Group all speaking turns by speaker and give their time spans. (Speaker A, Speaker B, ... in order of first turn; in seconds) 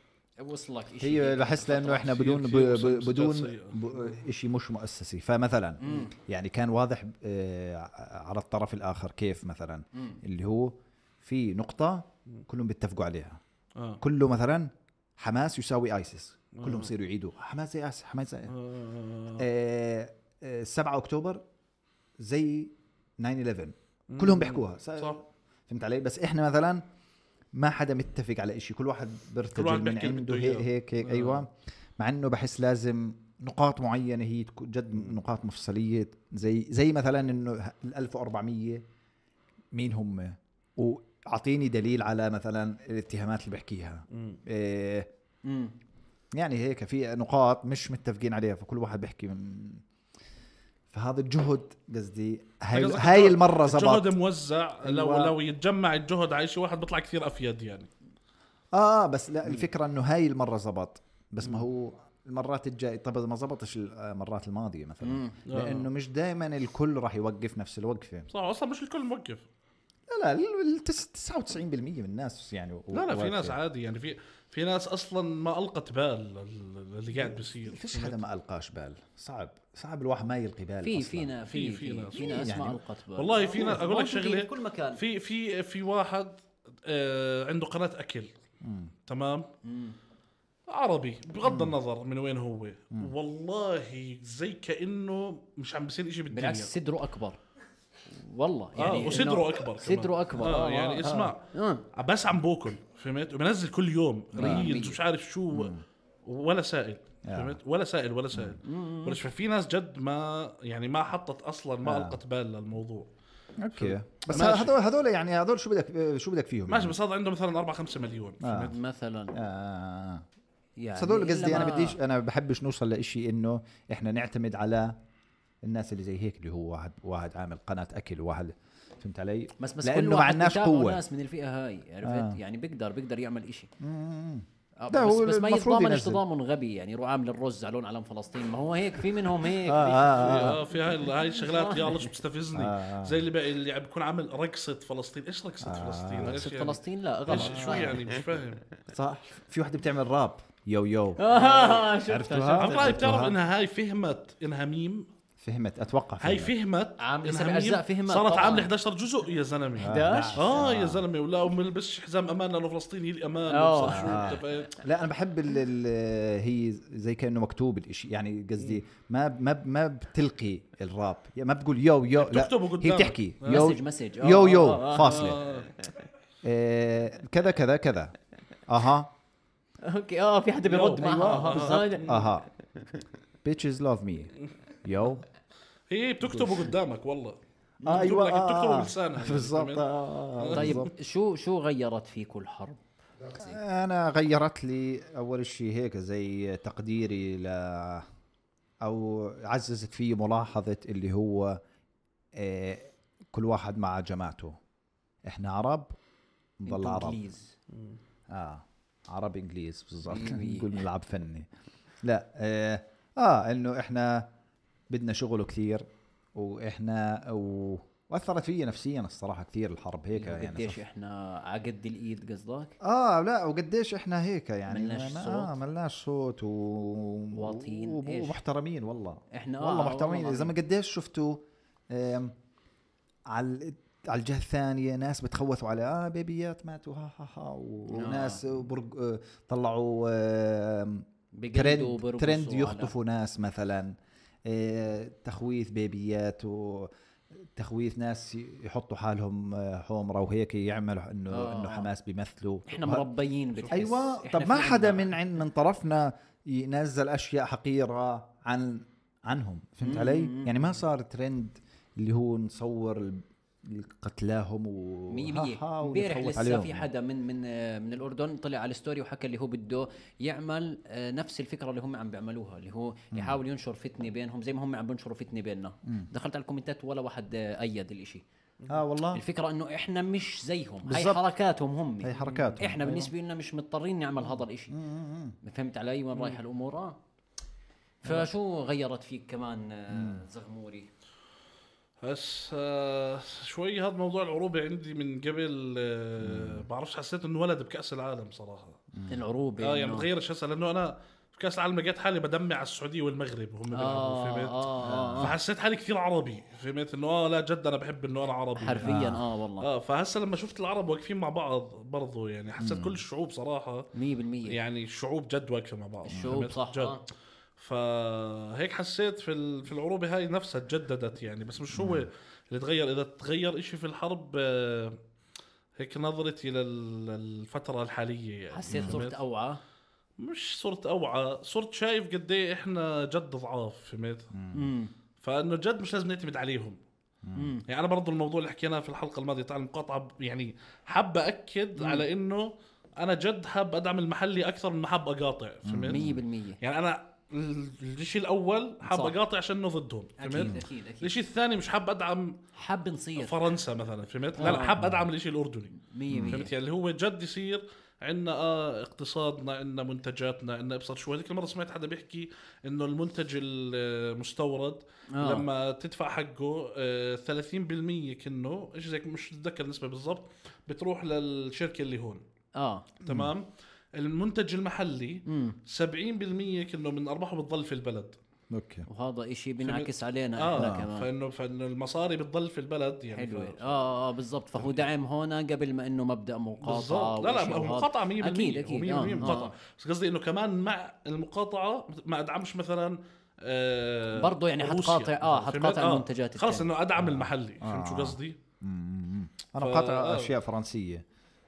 Speaker A: 0.4-2.2, 5.8-6.1, 45.4-45.7, 65.0-65.4, 80.8-85.0, 89.6-90.0, 96.3-97.4, 98.1-101.8, 104.4-105.0, 108.6-109.2, 118.7-119.3, 120.8-122.0, 129.6-133.7, 134.8-140.5, 141.2-142.1, 146.2-148.0, 151.2-153.3, 157.0-158.7, 159.8-160.6, 163.5-164.4, 173.5-175.4, 179.8-182.3, 190.5-192.9, 206.7-207.5, 210.1-210.8, 220.1-222.8, 224.7-225.5, 227.3-228.4, 229.3-230.5, 237.9-238.4, 241.3-242.9, 251.3-251.9, 252.7-255.1, 259.8-260.6, 265.1-278.2, 279.1-284.7, 285.4-287.0, 288.0-290.9, 299.1-300.1, 303.7-305.3, 308.6-309.7, 313.9-314.6, 316.1-317.0, 328.5-329.6, 334.5-334.9, 337.3-337.6, 341.8-342.0, 345.9-346.6, 348.8-349.2, 350.2-351.1, 352.5-353.4, 354.4-354.8, 355.8-356.5, 365.1-365.4, 372.6-372.9, 375.2-375.6, 378.9-381.1, 383.1-389.5, 394.1-396.7
Speaker B: 1.0-13.4, 14.0-18.5, 19.4-21.4, 22.2-26.8, 27.5-38.8, 39.7-45.1, 46.3-49.8, 50.9-54.1, 54.8-55.4, 58.7-68.3, 70.1-73.6, 77.1-81.3, 82.1-82.8, 88.6-88.9, 91.4-91.7, 101.0-101.3, 104.3-104.8, 105.5-105.8, 107.2-107.6, 108.3-108.6, 111.8-112.2, 113.6-117.0, 118.4-118.7, 119.3-120.2, 120.9-125.0, 125.6-131.0, 132.0-132.4, 133.8-136.2, 139.6-140.6, 142.5-143.2, 145.6-146.4, 147.3-148.0, 148.9-153.3, 155.4-156.5, 159.8-161.0, 163.9-175.5, 176.4-178.1, 178.7-179.1, 181.0-182.4, 183.4-184.3, 184.8-185.2, 186.2-186.7, 187.8-190.9, 193.2-198.1, 198.8-201.6, 202.3-204.6, 205.2-205.9, 206.6-207.2, 208.3-211.5, 212.0-214.3, 214.9-220.8, 222.8-232.3, 233.3-246.9, 247.5-253.1, 253.7-266.9, 278.7-279.2, 280.8-281.2, 282.0-283.1, 284.7-285.4, 289.9-290.2, 296.2-296.7, 304.8-305.4, 308.8-309.2, 312.6-313.0, 321.7-322.1, 328.7-329.0, 334.3-334.7, 337.2-337.6, 345.6-346.2, 350.3-350.6, 354.5-355.1, 356.1-356.4, 373.0-373.3, 378.5-378.9, 380.5-380.9, 397.0-401.0
Speaker C: 2.0-4.0, 16.5-16.9, 18.5-19.4, 24.1-25.2, 29.5-31.4, 44.1-44.4, 52.7-57.9, 65.5-65.9, 68.3-69.5, 72.9-78.2, 81.5-82.5, 83.2-88.3, 89.1-89.5, 90.7-96.7, 98.8-105.7, 106.2-113.1, 113.7-114.7, 116.7-118.8, 140.1-148.6, 152.6-155.1, 156.2-164.8, 172.2-173.8, 174.9-175.8, 180.7-182.2, 185.9-190.9, 207.7-208.0, 282.2-282.6, 292.0-298.8, 299.6-304.6, 305.2-309.0, 309.6-313.9, 314.5-317.0, 317.6-325.0, 325.8-329.2, 330.2-334.3, 335.2-336.8, 337.7-352.4, 353.2-372.2, 373.0-378.2, 379.6-383.9, 386.6-398.4, 399.6-400.3